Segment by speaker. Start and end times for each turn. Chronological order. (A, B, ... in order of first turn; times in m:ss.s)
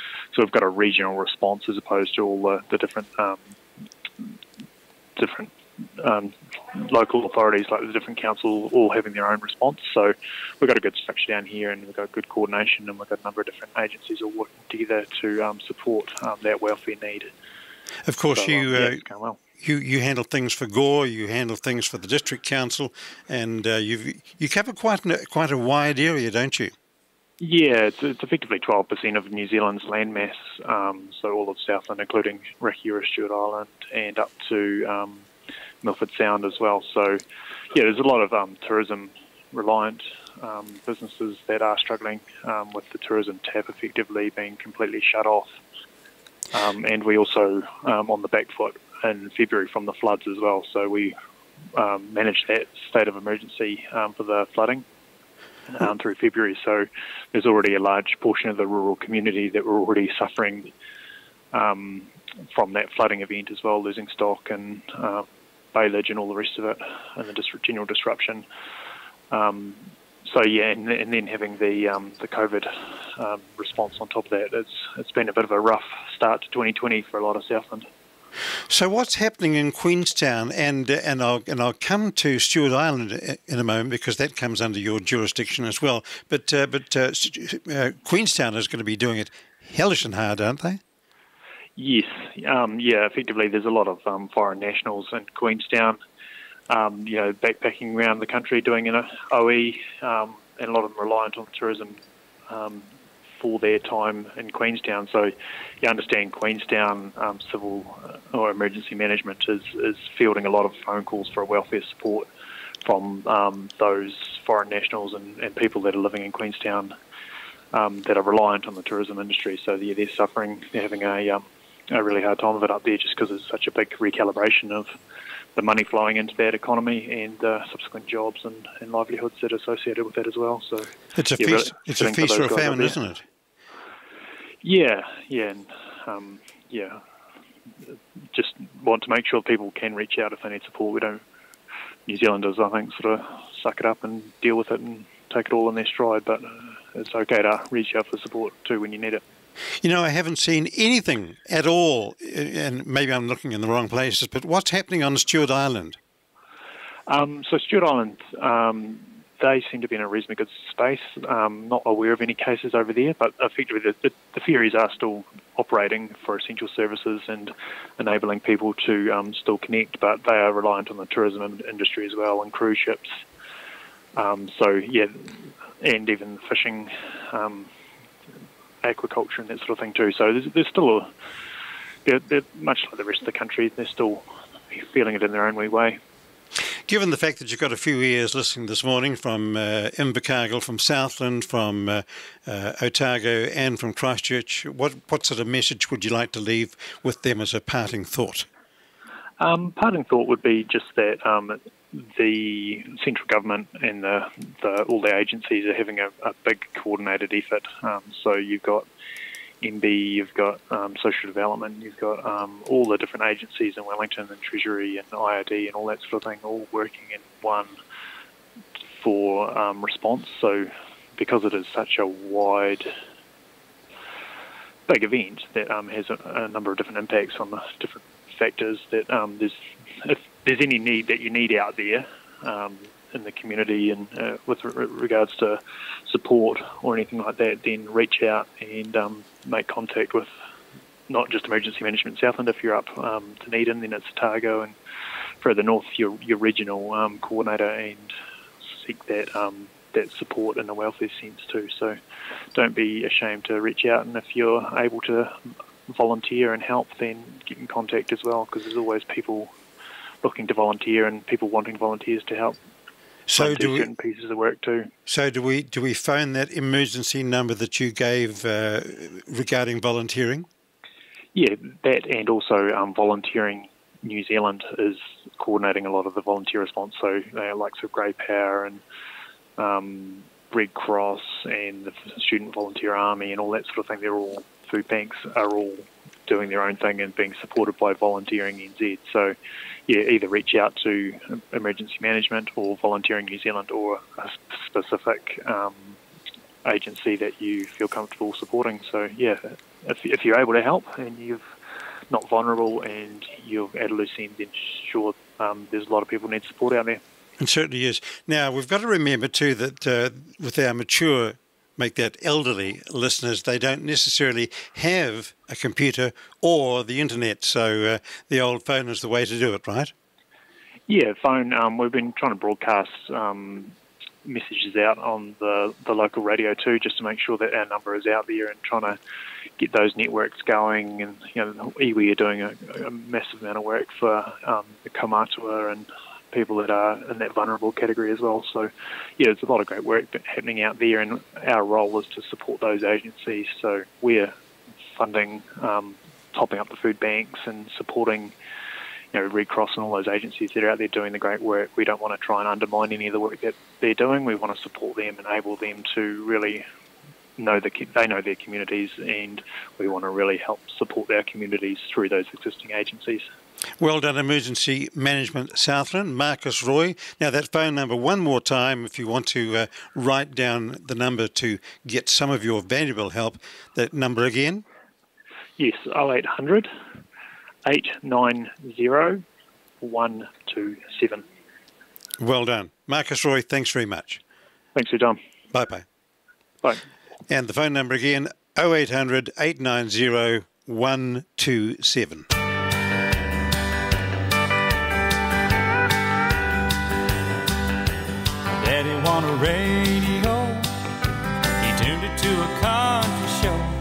0:00.3-0:03.5 A
0:05.2-0:17.3 A
0:18.0-0:19.0 B
0:18.3-0:19.4 A
0:19.6-0:26.7 B
0:27.4-0:35.3 A
0:35.8-0:37.2 A
0:37.7-0:45.6 A
0:46.5-0:51.1 A
0:51.7-0:54.8 A
0:55.7-1:00.7 A
1:01.5-1:08.4 A
1:09.3-1:17.8 A
1:18.7-1:30.8 B
1:31.8-1:36.0 A
1:36.7-1:52.3 A
1:52.8-1:56.9 A
1:57.7-2:04.9 A
2:05.5-2:13.0 A
2:11.2-2:13.2 B
2:14.6-2:17.0 A
2:18.3-2:21.2 A
2:22.0-2:29.2 A
2:29.8-2:36.0 B
2:37.1-2:53.0 A
2:54.2-2:57.7 A
2:58.8-3:01.1 A
3:02.0-3:06.0 A
3:06.9-3:18.5 B
3:19.4-3:28.8 A
3:29.6-3:37.8 A
3:39.0-3:42.9 A
3:44.9-4:00.3 A
4:01.1-4:04.8 A
4:05.4-4:08.1 A
4:08.7-4:12.0 A
4:12.5-4:15.3 A
4:15.9-4:19.5 A
4:20.2-4:22.6 A
4:23.3-4:23.9 B
4:23.4-4:24.9 A
4:25.1-4:30.4 B
4:31.3-4:38.8 A
4:39.6-4:56.0 A
4:56.6-5:01.4 A
5:02.1-5:07.0 A
5:07.4-5:19.9 B
5:20.9-5:29.0 A
5:29.6-5:44.3 A
5:44.9-5:48.3 A
5:49.1-5:56.6 A
5:57.4-6:03.2 A
6:03.8-6:14.6 B
6:15.6-6:16.7 A
6:17.6-6:19.2 A
6:19.8-6:21.2 A
6:22.2-6:24.2 B
6:24.7-6:25.2 A
6:25.5-6:25.8 B
6:27.3-6:32.3 B
6:38.5-6:40.6 C
6:41.6-6:43.5 C